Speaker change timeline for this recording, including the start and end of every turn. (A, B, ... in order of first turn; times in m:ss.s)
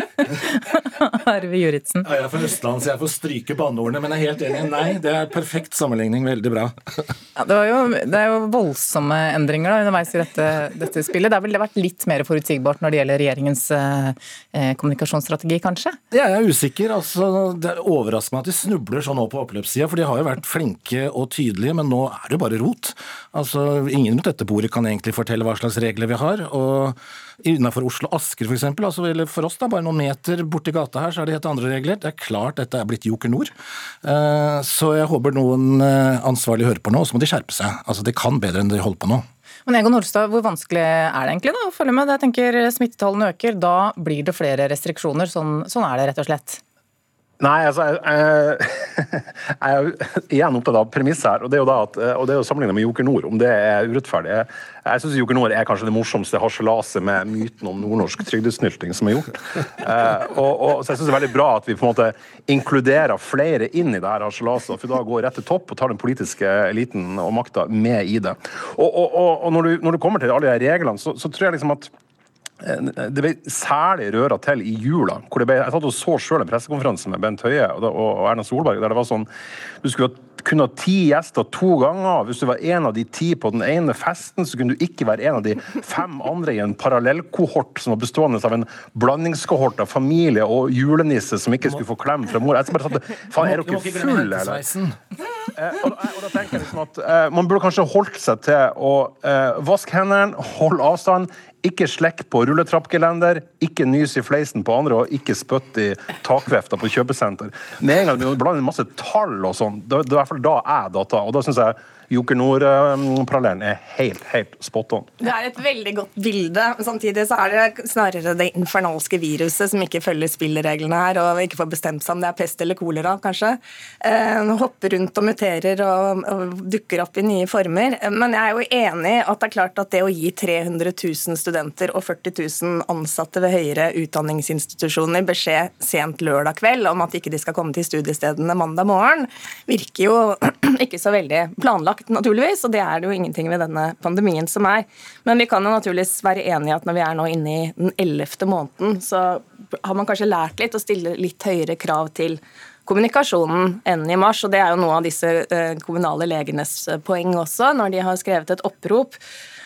0:00.4-0:02.0 A
0:02.0-0:07.1 B
0:07.4-0:16.0 A
0:16.1-0:39.2 B
0:39.6-0:46.6 A
0:47.4-1:11.9 C
1:12.6-1:19.3 C
1:19.8-1:34.6 C
1:33.4-1:35.0 B
1:35.6-1:55.1 C
1:55.2-2:39.2 D